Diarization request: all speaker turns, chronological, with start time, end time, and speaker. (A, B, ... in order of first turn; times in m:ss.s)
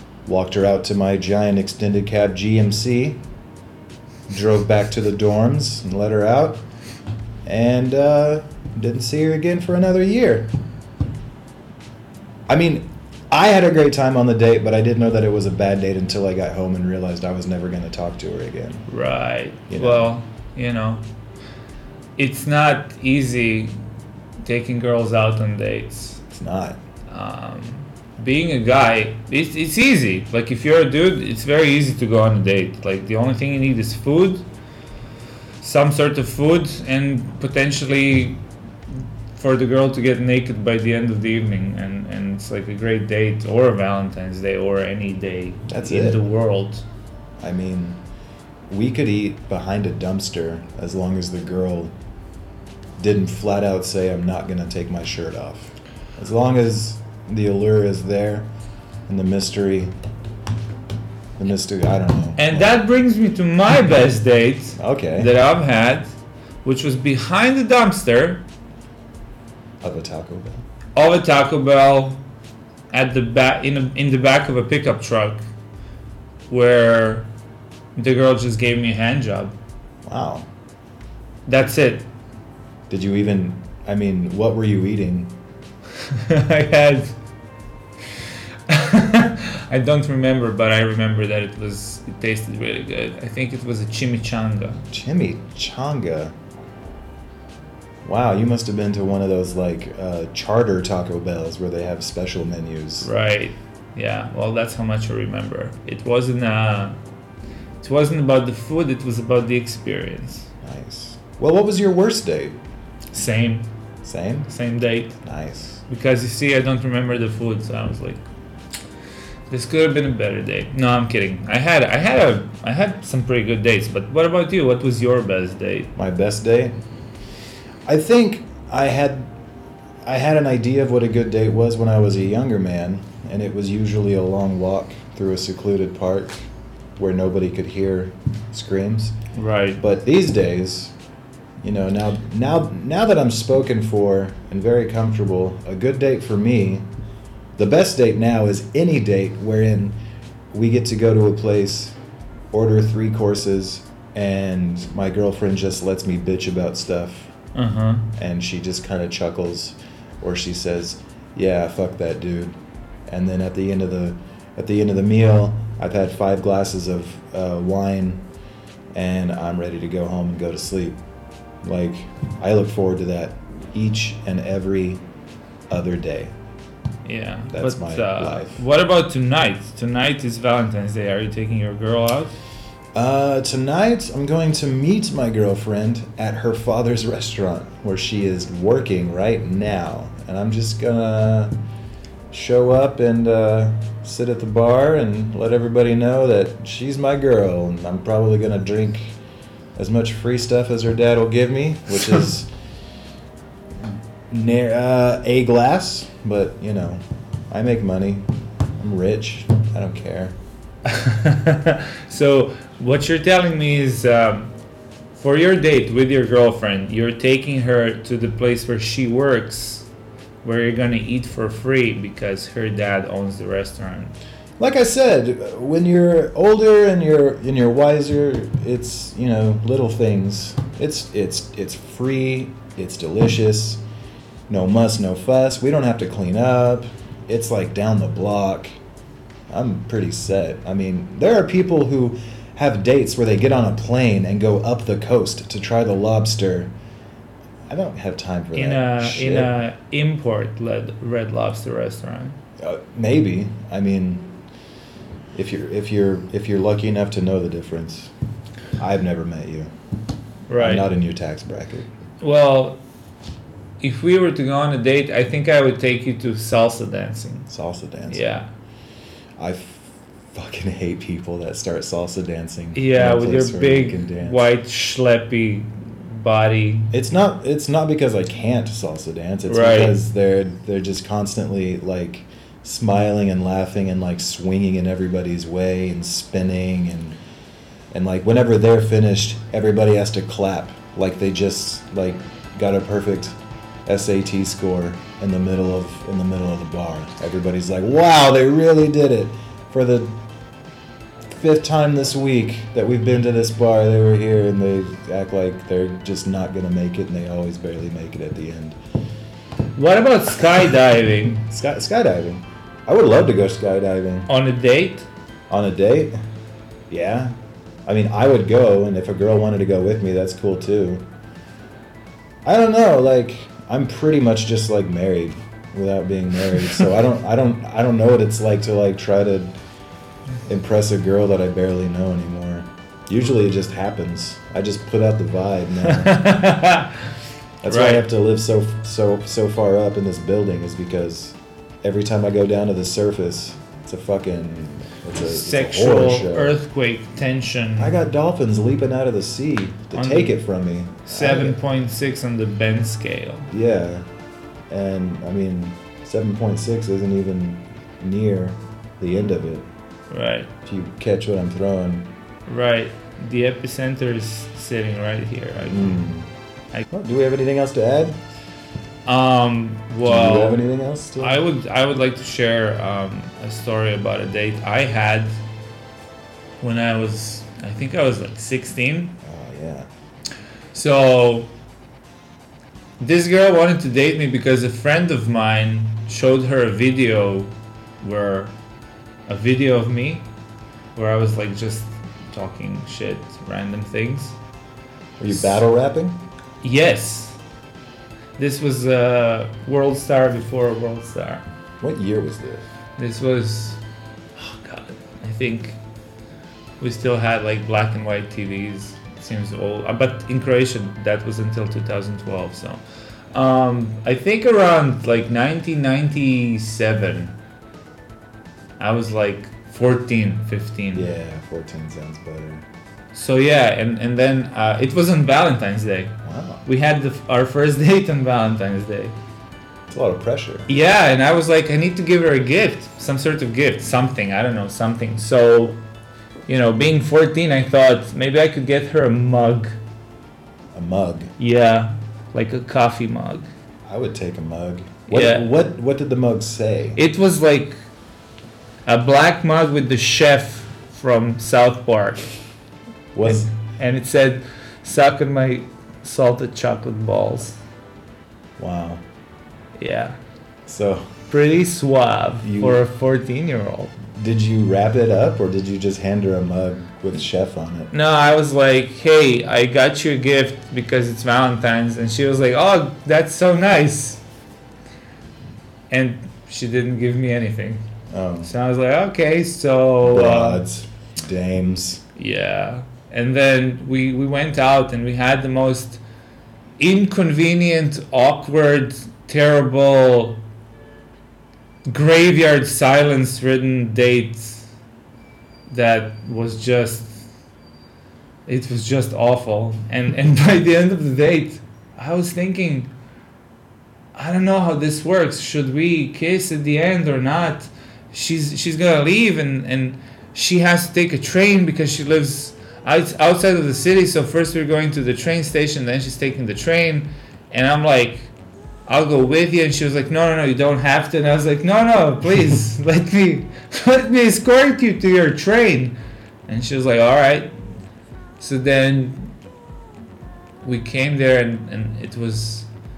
0:00.2-0:03.2 A
0:04.3-0:06.6 A
0:07.4-0:10.5 A
0:12.5-0:18.8 A
0:18.9-0:21.0 B
0:19.7-0:20.1 A
0:22.2-0:23.7 B
0:24.4-0:26.2 B
0:26.3-0:26.8 A
0:27.1-0:34.4 B
0:35.6-0:38.4 B
0:39.3-0:46.8 B
0:45.7-0:46.2 A
0:47.4-0:48.0 A
0:48.7-0:51.9 A
0:53.0-0:58.5 A
0:59.1-0:59.9 A
1:01.4-1:02.8 A
1:02.4-1:06.1 B
1:04.8-1:05.3 A
1:06.6-1:08.4 B
1:09.8-1:10.6 A
1:11.0-1:12.2 B
1:12.9-1:15.4 B
1:16.5-1:17.3 B
1:18.0-1:19.5 B
1:20.0-1:20.5 A
1:21.5-1:22.0 B
1:22.9-1:25.3 A
1:26.0-1:27.1 B
1:28.7-1:34.8 B
1:34.9-1:36.3 A
1:38.0-1:43.1 A
1:43.0-1:47.0 B
1:47.8-1:50.5 B
1:50.6-1:52.6 A
1:53.1-1:53.6 B
1:54.0-1:54.5 A
1:54.5-1:55.2 B
1:55.2-1:55.8 A
1:55.9-1:58.2 B
1:59.5-2:05.9 B
2:06.0-2:06.7 A
2:07.8-2:09.3 A
2:10.0-2:16.3 A
2:17.0-2:19.1 A
2:19.3-2:19.8 B
2:19.8-2:20.9 A
2:21.6-2:26.8 A
2:27.6-2:30.0 A
2:30.5-2:32.0 A
2:32.5-2:37.3 A
2:37.5-2:38.1 B
2:38.2-2:42.6 A
2:43.1-2:48.2 A
2:48.9-2:51.0 A
2:51.6-2:55.0 A
2:55.7-2:56.3 A
2:57.0-3:02.3 B
2:57.5-2:58.6 A
3:02.9-3:11.5 A
3:12.3-3:19.2 A
3:19.8-3:22.5 A
3:24.3-3:28.3 A
3:28.8-3:30.3 A
3:30.9-3:34.5 B
3:35.1-3:39.9 B
3:40.4-3:44.1 B
3:44.6-3:53.8 A
3:54.5-3:58.7 A
3:59.5-4:06.7 A
4:07.7-4:09.5 A
4:08.5-4:12.3 B
4:12.6-4:14.3 A
4:15.3-4:18.1 A
4:18.8-4:19.7 A
4:20.5-4:20.9 B
4:20.6-4:21.9 A
4:22.2-4:22.8 B
4:23.8-4:27.5 B
4:27.5-4:28.2 A
4:28.1-4:28.5 B
4:29.4-4:34.5 A
4:32.7-4:36.9 B
4:36.9-4:47.2 A
4:39.4-4:40.0 B
4:47.9-4:53.3 A
4:53.8-5:00.1 A
5:01.3-5:08.8 A
5:09.8-5:11.4 B
5:11.4-5:14.3 A
5:14.3-5:15.1 B
5:15.5-5:16.1 A
5:16.9-5:17.3 A
5:17.8-5:21.0 A
5:22.4-5:29.6 A
5:30.5-5:36.3 A
5:35.8-5:37.1 B
5:37.6-5:46.6 A
5:37.7-5:38.0 B
5:45.2-5:47.9 B
5:47.8-5:51.6 A
5:49.9-5:50.4 B
5:51.0-5:53.5 B
5:53.5-5:54.1 A
5:54.7-5:59.6 A
6:00.1-6:00.5 B
6:00.6-6:02.1 A
6:02.5-6:06.0 B
6:05.6-6:06.3 A
6:06.9-6:08.2 A
6:09.0-6:10.6 B
6:10.0-6:11.4 A
6:11.2-6:15.3 B
6:16.6-6:19.2 B
6:19.2-6:19.9 A
6:20.7-6:21.5 B
6:23.0-6:28.5 B
6:29.3-6:30.2 B
6:31.0-6:34.4 B
6:35.2-6:36.2 A
6:35.3-6:35.6 B
6:36.6-6:37.4 B
6:38.4-6:41.4 B
6:41.8-6:42.6 A
6:43.0-6:43.8 B
6:44.4-6:45.8 B
6:46.8-6:52.8 B
6:53.3-6:57.3 B
6:58.8-7:01.1 B
7:00.9-7:02.6 A
7:03.1-7:06.1 B
7:06.2-7:06.6 A
7:06.6-7:09.1 B
7:09.9-7:10.7 A
7:10.7-7:15.8 B
7:16.5-7:19.8 B
7:20.7-7:21.3 A
7:21.4-7:23.5 B
7:23.8-7:27.0 A
7:25.1-7:25.5 B
7:27.0-7:27.8 B
7:28.8-7:32.3 B
7:33.1-7:33.5 A
7:33.2-7:37.6 B
7:38.6-7:39.0 A
7:39.8-7:40.2 B
7:40.7-7:41.0 A
7:41.3-7:43.9 B
7:42.4-7:42.8 A
7:44.1-7:47.9 A
7:47.9-7:54.2 B
7:55.9-7:57.8 B
7:58.1-7:58.5 A
7:58.4-8:00.6 B
8:00.0-8:02.0 A
8:02.2-8:06.0 B
8:06.8-8:10.4 B
8:11.9-8:14.7 B
8:15.7-8:17.2 B
8:18.5-8:22.9 B
8:24.1-8:38.3 B
8:38.9-8:45.9 B
8:46.5-8:47.5 B
8:48.4-8:49.3 B
8:50.6-8:52.7 B